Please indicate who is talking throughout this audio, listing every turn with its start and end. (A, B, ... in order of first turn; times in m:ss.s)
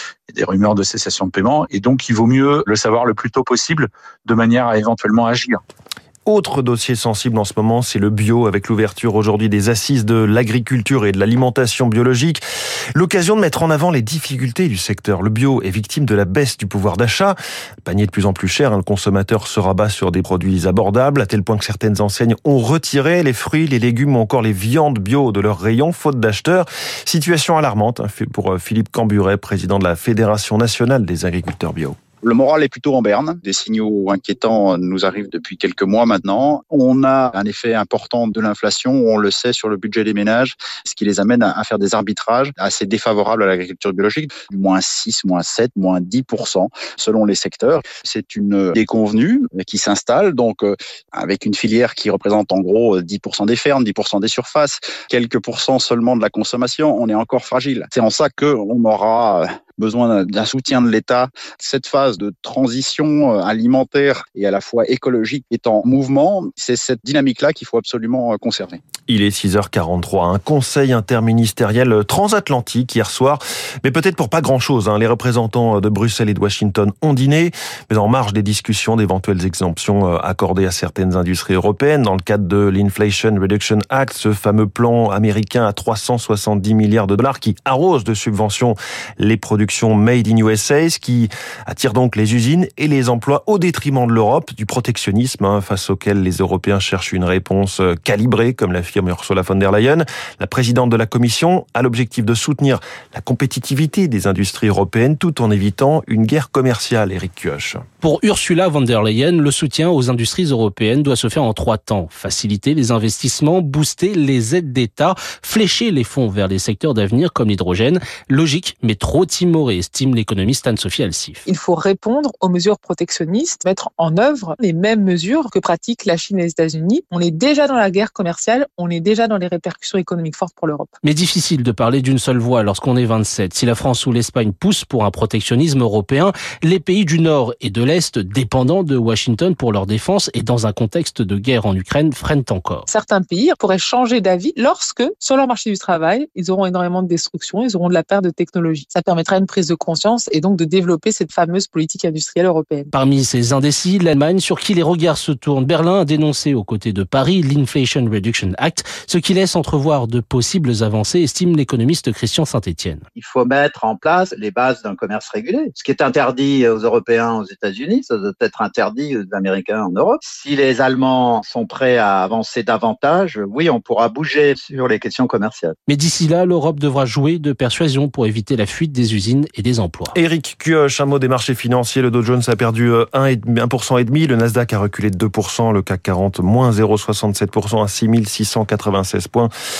0:00.3-0:05.6 A
0:06.2-0:12.4 B
0:12.9-0:32.0 B
0:32.2-1:08.8 C
1:09.1-1:47.8 B
1:48.0-2:01.4 D
2:01.4-2:10.9 E
2:11.0-2:22.9 D
2:22.9-2:32.9 E
2:32.9-2:43.0 D
2:43.1-2:55.8 F
2:55.9-3:00.1 D
3:00.1-3:09.5 B